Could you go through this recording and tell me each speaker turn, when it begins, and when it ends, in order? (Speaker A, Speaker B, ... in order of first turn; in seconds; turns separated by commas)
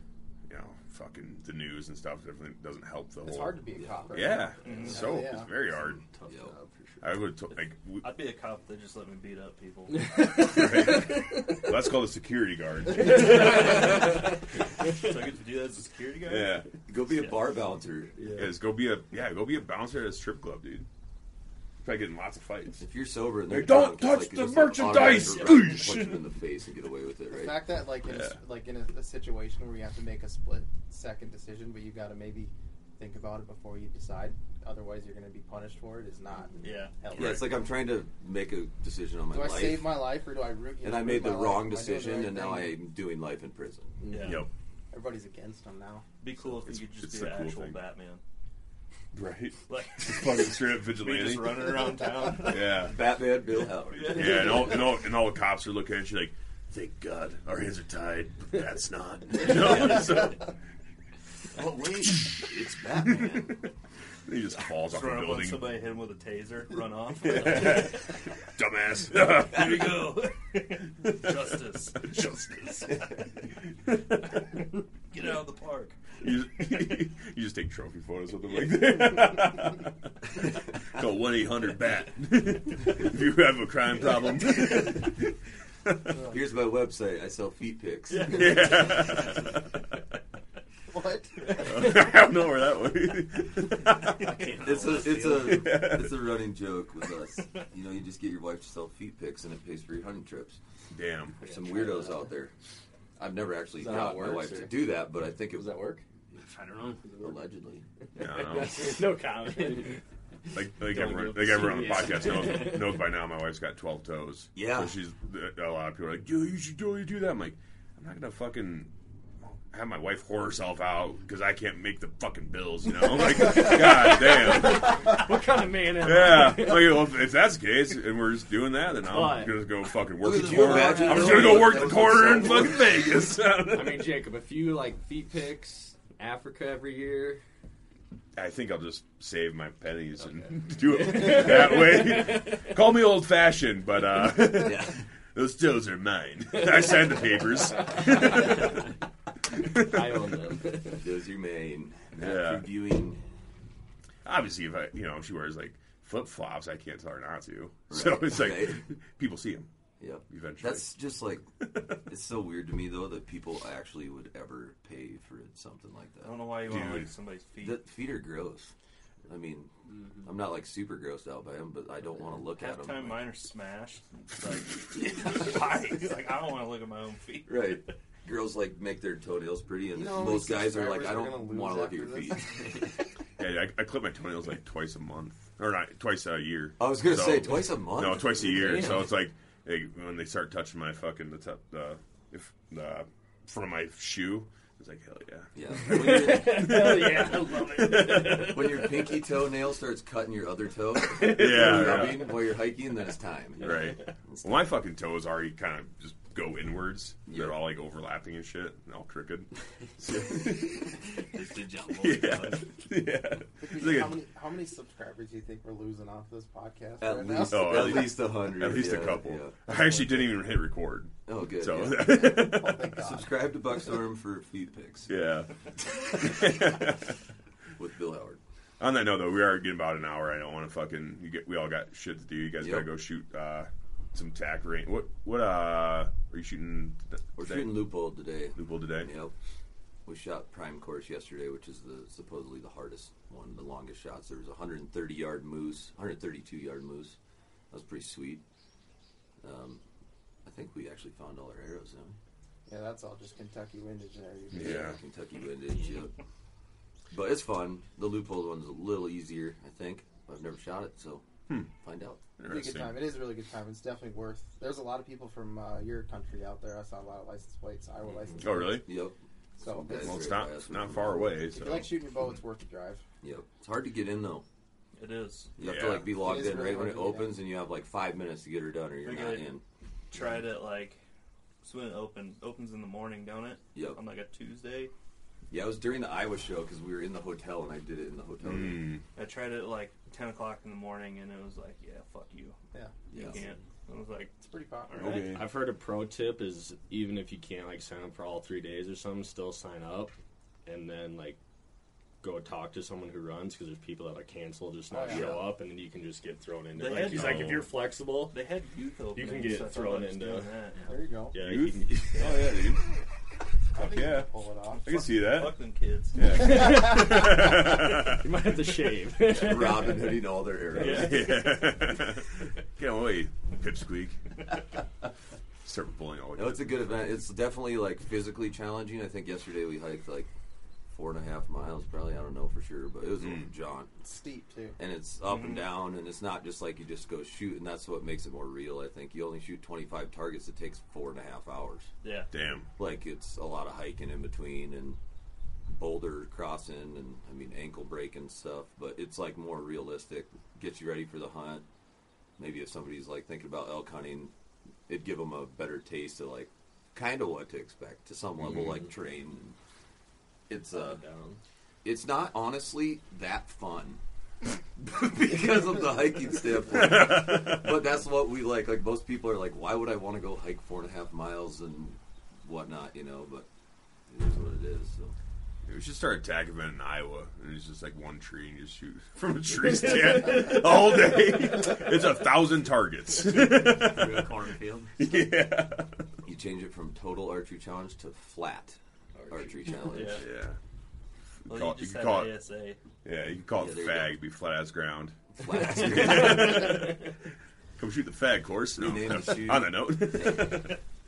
Speaker A: 0.5-3.6, Speaker B: 3.2-5.5, Speaker C: 3.7-4.4, Speaker A: 4.1-6.0, Speaker D: 4.6-5.2, Speaker E: 4.7-5.5, Speaker E: 6.0-7.2, Speaker C: 6.2-6.5, Speaker A: 7.0-8.1, Speaker D: 7.5-10.5, Speaker E: 9.9-11.7, Speaker A: 10.3-13.9, Speaker E: 12.9-14.2, Speaker D: 13.5-13.9, Speaker D: 14.9-16.6, Speaker A: 16.2-16.7, Speaker C: 16.9-18.2, Speaker E: 18.1-18.5, Speaker A: 18.3-20.9, Speaker A: 21.8-22.8, Speaker C: 22.8-27.6, Speaker A: 23.5-26.3, Speaker B: 27.3-37.6, Speaker A: 28.0-28.4, Speaker D: 36.6-37.0, Speaker C: 37.1-40.0, Speaker A: 37.1-37.5, Speaker B: 39.3-42.8, Speaker C: 40.8-44.0, Speaker E: 44.0-44.4, Speaker D: 44.0-44.5, Speaker A: 44.2-44.5, Speaker B: 44.9-46.0, Speaker D: 46.2-48.2, Speaker A: 46.4-47.8, Speaker A: 49.1-51.7, Speaker D: 49.7-52.8, Speaker A: 52.4-53.0, Speaker C: 52.7-54.5, Speaker D: 53.9-55.0, Speaker A: 54.1-60.5, Speaker D: 59.6-59.9, Speaker D: 61.6-62.2, Speaker A: 62.0-62.4, Speaker C: 62.2-63.6, Speaker A: 63.0-63.6, Speaker A: 64.3-65.7, Speaker D: 64.8-68.0, Speaker A: 67.2-70.2, Speaker D: 69.4-73.2, Speaker A: 71.0-71.3, Speaker A: 73.9-74.3, Speaker D: 75.1-76.0, Speaker A: 76.2-86.2, Speaker C: 86.2-89.1, Speaker A: 88.2-89.8, Speaker B: 90.9-91.5, Speaker A: 91.5-94.5, Speaker F: 94.2-95.8, Speaker C: 94.6-100.6, Speaker A: 95.2-96.4, Speaker A: 100.9-101.4, Speaker E: 101.4-102.3, Speaker C: 101.4-102.5, Speaker C: 103.2-105.8, Speaker E: 103.7-106.0, Speaker F: 106.3-107.0, Speaker E: 107.0-107.4, Speaker C: 107.2-107.8, Speaker E: 108.1-113.1, Speaker A: 108.1-109.0, Speaker A: 110.5-118.9, Speaker C: 114.5-115.0, Speaker A: 119.7-125.2, Speaker E: 123.1-127.2, Speaker A: 126.0-134.2, Speaker E: 129.1-129.7, Speaker C: 130.2-133.1, Speaker E: 130.4-131.9, Speaker E: 133.7-137.4, Speaker A: 138.3-148.8, Speaker E: 140.4-142.6, Speaker C: 144.5-145.0, Speaker E: 147.8-148.5, Speaker A: 149.5-150.3, Speaker E: 149.8-151.0, Speaker C: 150.8-153.2, Speaker A: 152.2-152.7, Speaker A: 154.2-159.7, Speaker C: 157.9-158.8, Speaker C: 160.0-161.5, Speaker A: 160.3-160.8, Speaker A: 161.6-162.0, Speaker C: 162.1-166.4, Speaker D: 166.2-167.8, Speaker A: 166.6-167.1, Speaker C: 167.6-168.7, Speaker C: 169.3-169.7, Speaker C: 170.2-173.3, Speaker D: 172.4-177.9, Speaker C: 177.4-182.8, Speaker B: 179.9-182.8, Speaker A: 183.4-198.6, Speaker C: 186.8-189.1, Speaker C: 195.5-197.4, Speaker E: 195.9-199.2, Speaker C: 197.9-204.7, Speaker E: 201.1-202.3, Speaker A: 201.2-202.3, Speaker E: 203.6-203.9, Speaker A: 203.6-211.2, Speaker C: 207.3-207.6, Speaker D: 211.3-212.7, Speaker A: 212.0-214.2, Speaker B: 213.6-218.2, Speaker C: 217.0-220.0, Speaker A: 217.5-222.9, Speaker C: 221.2-225.1, Speaker B: 222.3-223.4, Speaker A: 225.1-227.1, Speaker C: 226.1-226.7, Speaker C: 227.8-228.4, Speaker A: 228.8-237.9, Speaker C: 232.6-232.9, Speaker C: 237.3-239.3, Speaker A: 238.6-239.1, Speaker C: 240.1-247.2, Speaker C: 247.7-248.4, Speaker C: 249.4-249.8, Speaker C: 250.4-252.2, Speaker B: 252.7-254.8, Speaker A: 254.5-255.0, Speaker C: 254.5-256.1, Speaker C: 257.1-262.2, Speaker A: 262.4-263.1, Speaker B: 262.4-268.9, Speaker E: 268.1-268.4, Speaker A: 268.4-268.9, Speaker C: 268.7-271.4, Speaker B: 269.6-270.4, Speaker A: 269.9-272.0, Speaker B: 271.4-273.0, Speaker C: 273.2-274.4, Speaker D: 274.9-275.6, Speaker C: 275.6-279.6, Speaker A: 275.6-276.2, Speaker B: 276.0-277.4, Speaker D: 279.0-281.0, Speaker D: 281.6-284.9, Speaker C: 283.7-284.0, Speaker C: 285.5-288.9, Speaker A: 288.4-289.0, Speaker D: 289.1-292.6, Speaker C: 293.1-293.4, Speaker D: 293.2-294.3, Speaker B: 294.4-295.2, Speaker D: 294.9-295.4, Speaker A: 295.0-295.5, Speaker E: 295.2-300.1, Speaker E: 300.6-301.4, Speaker E: 302.2-308.4, Speaker B: 304.9-305.5, Speaker D: 306.7-311.0, Speaker A: 307.1-307.7, Speaker E: 309.1-310.6, Speaker B: 310.9-311.6, Speaker E: 311.3-312.3, Speaker A: 311.3-312.8, Speaker D: 312.1-312.7, Speaker B: 313.7-315.2, Speaker A: 313.8-314.3, Speaker D: 314.7-316.4, Speaker A: 314.8-315.6, Speaker A: 316.1-318.3, Speaker E: 316.3-321.4, Speaker B: 316.5-316.8, Speaker C: 319.2-321.5, Speaker D: 320.7-321.5, Speaker A: 320.8-324.2, Speaker A: 325.6-326.8, Speaker C: 326.4-330.3, Speaker C: 330.9-333.9, Speaker A: 333.2-333.5, Speaker B: 334.0-334.8, Speaker C: 334.8-341.9, Speaker D: 335.2-335.7, Speaker D: 342.0-342.3, Speaker A: 342.3-342.7, Speaker C: 342.8-345.0, Speaker C: 345.7-351.6, Speaker C: 352.4-354.3, Speaker C: 354.9-359.6, Speaker A: 358.4-358.8, Speaker C: 360.5-361.0, Speaker E: 360.7-361.4, Speaker C: 361.8-364.0, Speaker C: 364.8-373.5, Speaker A: 366.8-367.7, Speaker C: 374.1-375.1, Speaker A: 375.7-384.4, Speaker F: 383.4-385.0, Speaker A: 385.0-386.0, Speaker C: 386.2-388.8, Speaker E: 389.1-389.8, Speaker C: 389.3-390.3, Speaker D: 389.8-390.3, Speaker A: 390.2-390.6, Speaker A: 391.4-392.4, Speaker D: 391.5-392.8, Speaker A: 393.0-397.1, Speaker C: 393.5-394.2, Speaker C: 395.3-396.8, Speaker A: 397.8-400.8, Speaker C: 398.8-400.8